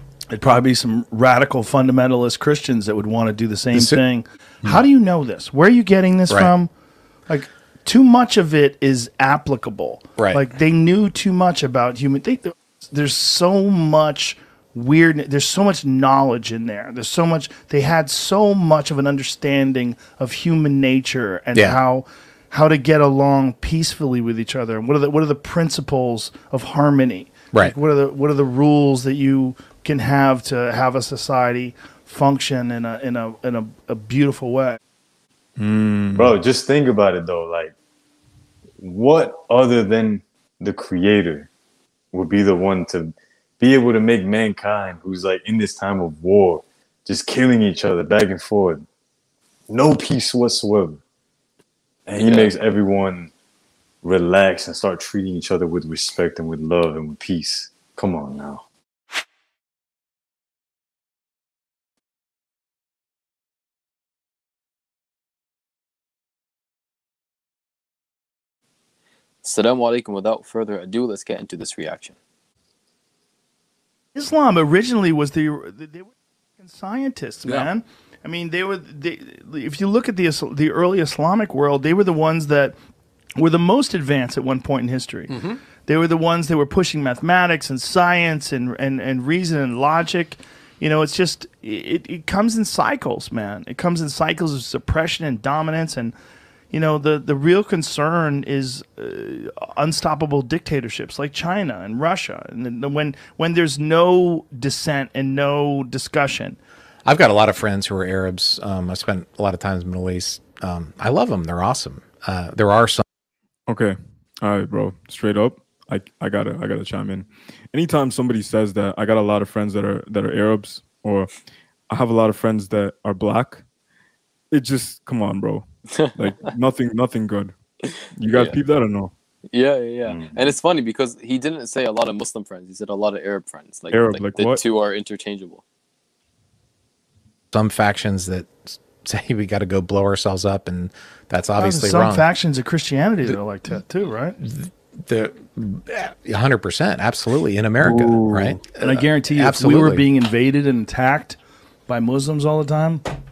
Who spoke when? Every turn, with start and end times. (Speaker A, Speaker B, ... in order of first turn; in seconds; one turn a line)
Speaker A: 0.3-6.7
Speaker B: 3.7-4.0
Speaker A: 7.3-34.8
Speaker B: 10.2-10.5
Speaker B: 21.5-21.8
Speaker C: 35.6-36.4
Speaker D: 36.1-37.8
Speaker D: 38.8-41.5
Speaker D: 42.1-48.9
Speaker D: 49.7-51.0
Speaker D: 52.1-53.3
Speaker E: 52.2-52.5
Speaker D: 54.0-58.6
Speaker E: 69.4-72.2
Speaker A: 74.2-82.8
Speaker A: 83.4-96.2
Speaker A: 96.7-106.6
Speaker B: 107.1-113.0
Speaker C: 113.7-121.3
Speaker C: 121.9-123.6
Speaker C: 124.5-127.5
Speaker E: 126.0-126.5
Speaker C: 128.2-129.1
Speaker E: 128.3-128.6
Speaker E: 129.5-135.6
Speaker D: 130.1-130.6
Speaker C: 133.9-134.6
Speaker B: 137.5-142.3
Speaker A: 141.6-144.4
Speaker B: 144.4-150.0
Speaker D: 147.8-148.2
Speaker A: 148.7-153.0